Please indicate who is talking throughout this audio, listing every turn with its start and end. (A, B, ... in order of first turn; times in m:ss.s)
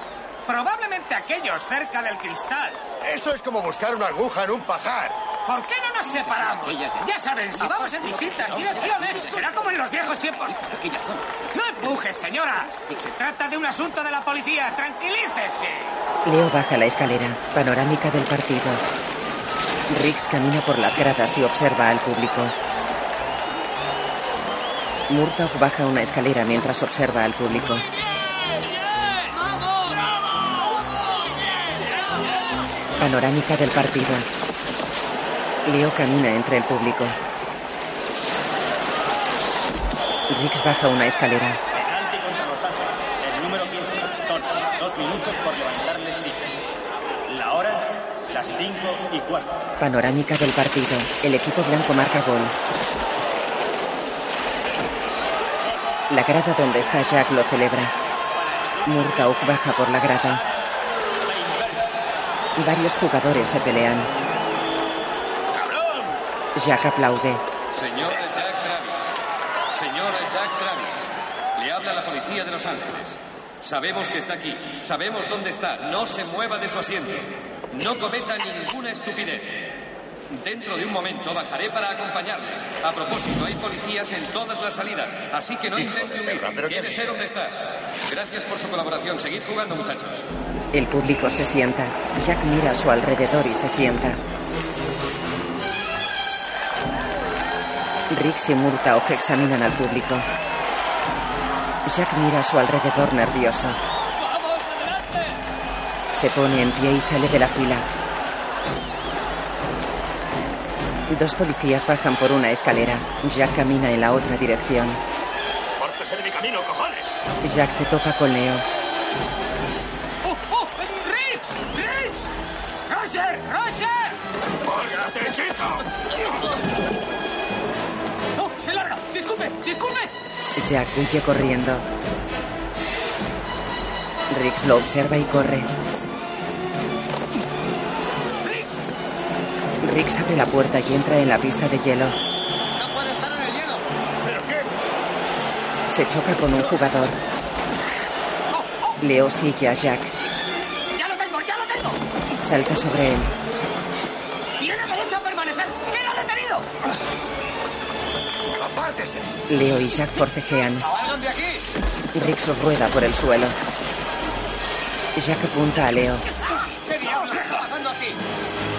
0:00.4-0:02.8 A
0:03.0-0:05.2 B
0:05.4-0:10.6 A
0:11.5-0:16.0 A
0:16.2-0:18.8 C
0:19.9-0:22.5 C
0:25.1-0:27.9 C
0:29.0-0:30.0 A
0:31.6-0:32.4 A
0:33.0-0:34.3 C
0:35.6-0:37.2 C
0:40.3-0:41.6 C
0:41.7-0:46.6 D
0:47.2-0:49.7 D
0:49.8-0:52.5 C
0:56.1-0:57.9 C
0:58.8-1:00.4 C
1:01.4-1:01.7 D
1:02.6-1:04.1 C
1:06.6-1:07.4 C
1:07.7-1:09.2 E
1:09.7-1:19.7 E
1:20.3-1:30.3 E
1:25.7-1:27.2 B
1:30.7-1:34.2 C
1:38.1-1:40.3 C
1:41.8-1:43.8 C
1:46.1-1:47.9 C
1:51.1-1:55.0 C
1:57.4-1:58.6 C
2:00.2-2:02.3 A
2:02.9-2:04.2 A
2:04.9-2:05.4 B
2:08.4-2:10.1 A
2:10.6-2:11.8 C
2:14.3-2:15.7 C
2:19.8-2:22.2 C
2:23.4-2:23.6 A
2:24.2-2:24.7 B
2:25.9-2:27.2 C
2:29.0-2:30.1 C
2:30.9-2:32.0 A
2:32.4-2:33.3 C
2:34.6-2:36.7 A
2:38.5-2:39.3 B
2:39.5-2:40.9 C
2:42.1-2:43.6 C
2:45.1-2:46.2 C
2:46.4-2:48.1 A